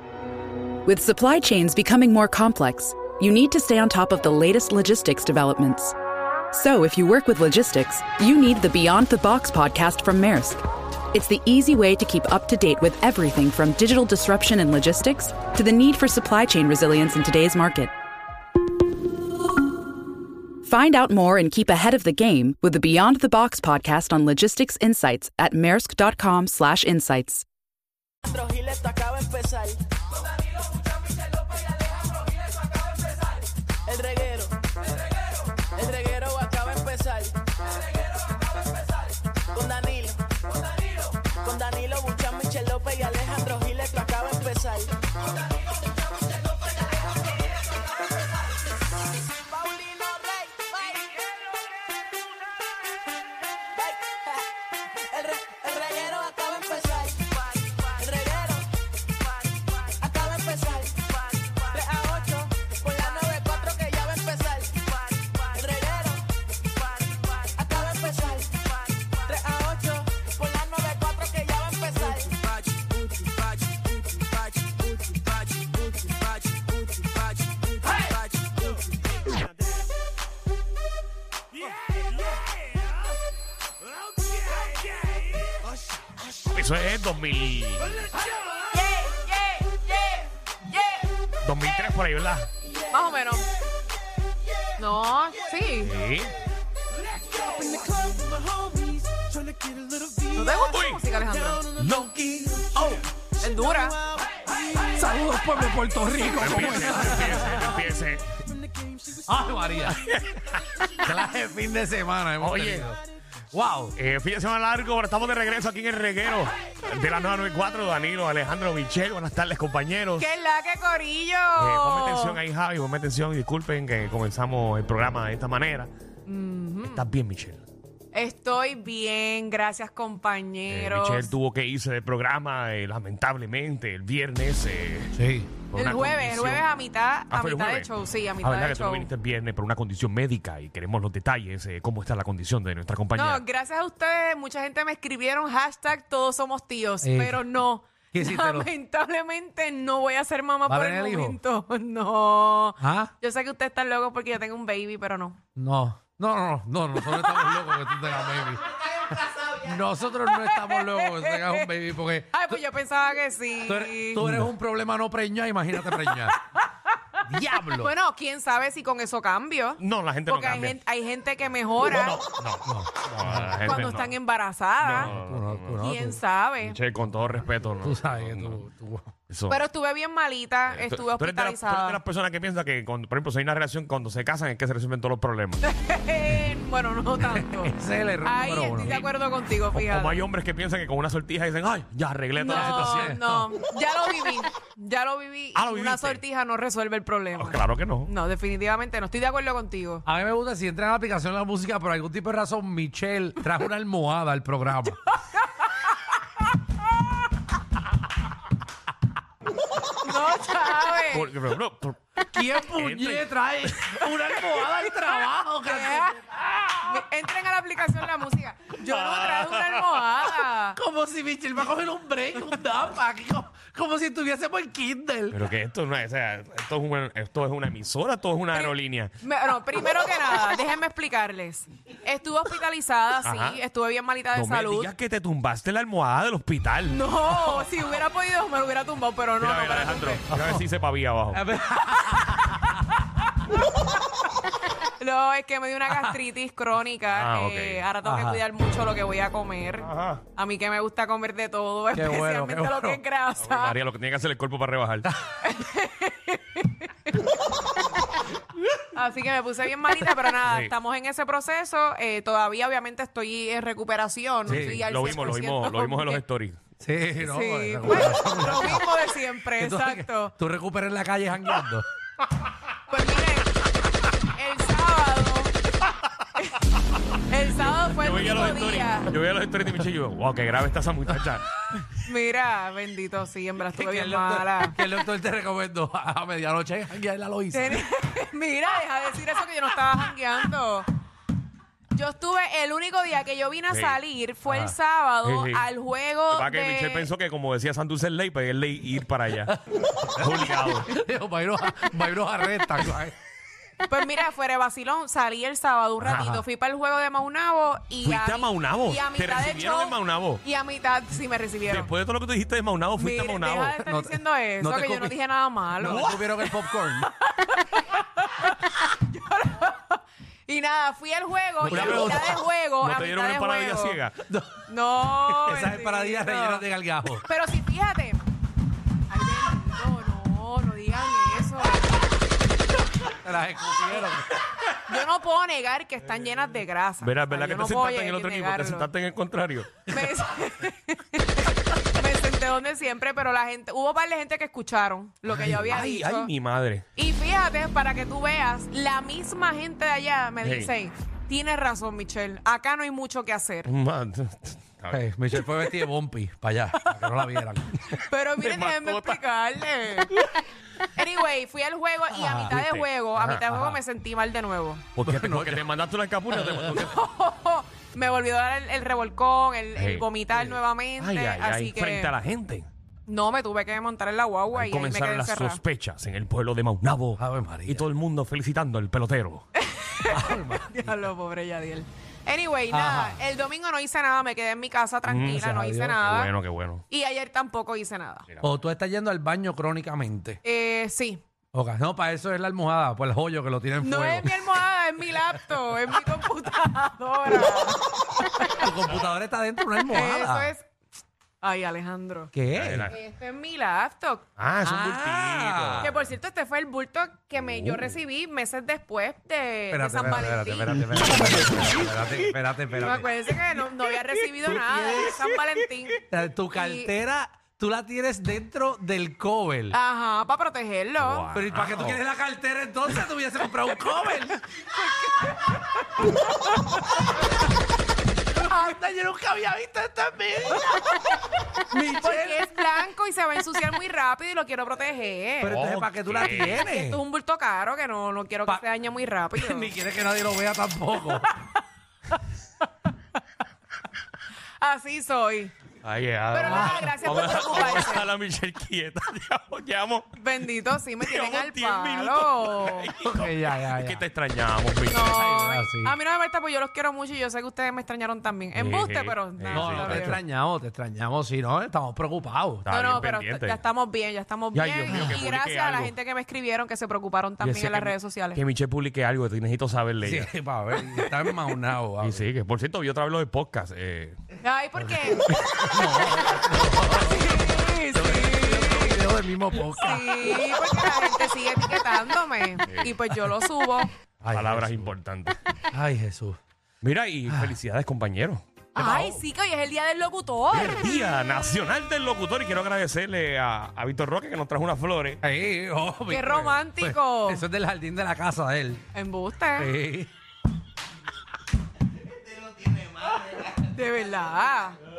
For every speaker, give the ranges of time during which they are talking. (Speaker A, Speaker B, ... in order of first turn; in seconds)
Speaker A: 0.8-5.9, 6.5-10.6, 11.1-17.9, 20.6-27.4
Speaker B: 28.2-29.8, 33.9-34.5, 35.7-37.4, 39.5-40.4, 41.2-44.9, 49.5-51.0, 53.8-54.4, 55.0-58.7, 59.6-66.2, 67.1-78.8, 97.3-100.2
Speaker C: 86.5-88.1, 91.4-92.5, 95.8-96.3, 100.5-101.0, 101.7-102.8, 106.3-108.3, 109.9-110.9, 112.4-112.9, 113.9-120.3, 121.5-125.9, 126.8-127.6, 130.7-135.2, 135.7-136.7, 137.3-143.4, 164.2-164.5, 169.8-170.8, 171.8-174.1, 174.8-175.8, 176.6-178.6, 179.3-179.6, 180.7-185.6, 188.8-189.1, 189.7-193.2, 195.5-196.2, 197.4-198.1, 211.1-213.3, 218.9-219.9, 225.3-229.1, 233.2-233.6, 234.3-237.0, 239.4-241.4, 247.1-247.8, 249.8-250.2, 253.4-255.1, 260.4-260.7, 264.4-266.6, 277.6-281.6, 293.7-295.7, 296.3-299.6, 300.2-300.9, 306.0-306.4, 308.0-310.4, 311.6-313.8, 315.8-316.5, 321.6-322.2, 322.8-324.2, 337.0-339.9, 345.3-346.8, 350.4-350.7, 353.6-355.0, 357.9-359.2, 362.4-363.4, 364.9-366.9, 369.7-370.1, 371.0-372.7, 374.5-379.4, 385.1-385.5, 386.0-386.8, 402.5-402.9, 404.4-406.1, 421.0-422.0, 435.5-436.7, 445.8-450.1, 451.0-455.1, 458.5-460.2, 462.6-463.6, 464.5-465.9, 468.3-470.3, 472.0-474.2, 482.6-483.1, 484.3-485.4, 486.8-488.4, 490.5-495.2
Speaker D: 88.6-91.1, 92.9-93.5, 94.8-95.9, 100.3-101.7, 102.7-104.0, 120.2-122.4, 126.2-127.0, 128.1-131.3, 135.7-139.1, 143.1-155.4, 157.1-157.7, 160.3-161.7, 162.3-164.2, 165.8-166.3, 167.7-172.2, 173.6-175.1, 175.8-176.8, 179.5-182.0, 185.6-190.2, 192.4-200.0, 205.3-205.8, 210.0-211.3, 214.0-220.8, 228.5-234.9, 236.8-240.2, 242.0-242.8, 244.8-253.8, 255.4-257.2, 258.9-266.2, 267.2-270.3, 272.9-273.5, 274.1-275.5, 276.4-276.6, 277.3-279.1, 281.9-284.8, 287.5-290.9, 291.9-297.1, 303.8-311.9, 312.9-316.1, 317.0-324.0, 324.7-326.6, 327.2-328.2, 329.1-332.1, 334.8-338.9, 339.9-346.3, 346.9-353.7, 358.0-360.2, 360.8-364.9, 366.8-372.1, 373.1-375.6, 379.5-386.3, 386.9-388.3, 390.4-391.2, 393.8-398.7, 399.9-400.7, 401.4-402.3, 402.9-404.2, 405.8-410.8, 412.8-416.9, 419.7-421.3, 424.5-426.8, 431.8-435.6, 436.2-439.8, 444.6-445.5, 446.3-448.1, 450.1-452.9, 454.9-460.2, 462.7-468.4, 470.8-471.5, 474.4-475.3, 475.8-476.4, 476.9-479.0, 479.6-483.9, 488.8-491.0, 496.1-497.5, 498.9-499.7, 503.5-504.8
Speaker E: 104.7-107.7, 109.2-110.0, 111.0-113.0, 113.5-113.9, 135.1-135.6, 147.0-147.4, 148.1-148.7, 150.7-151.4, 152.8-153.1, 155.6-162.6, 163.7-166.4, 167.2-167.9, 172.6-174.0, 174.8-176.2, 177.8-179.1, 187.2-189.1, 192.4-193.5, 200.0-205.0, 212.3-216.9, 220.7-225.4, 240.3-240.7, 241.3-242.7, 248.0-248.4, 251.9-253.0, 264.4-264.8, 266.8-271.9, 283.6-287.9, 299.4-303.1, 313.8-315.2, 315.7-317.1, 321.6-322.4, 324.2-327.2, 333.1-334.7, 354.9-357.8, 362.1-362.5, 363.4-363.8, 365.0-365.6, 366.3-366.9, 377.2-377.8, 380.1-381.1, 382.7-383.2, 385.1-386.0, 388.4-390.4, 391.5-394.5, 398.5-400.5, 402.3-402.9, 404.6-405.9, 409.7-413.2, 414.4-415.2, 416.1-419.8, 421.3-424.4, 428.3-431.0, 431.7-432.4, 435.4-437.0, 439.3-441.3, 446.4-447.0, 453.0-454.0, 454.9-456.0, 459.5-462.7, 464.9-465.2, 467.4-467.9, 470.0-472.2, 474.8-480.8, 484.2-484.9, 485.7-486.4, 487.3-487.6, 488.8-489.2, 495.2-498.8, 499.6-500.1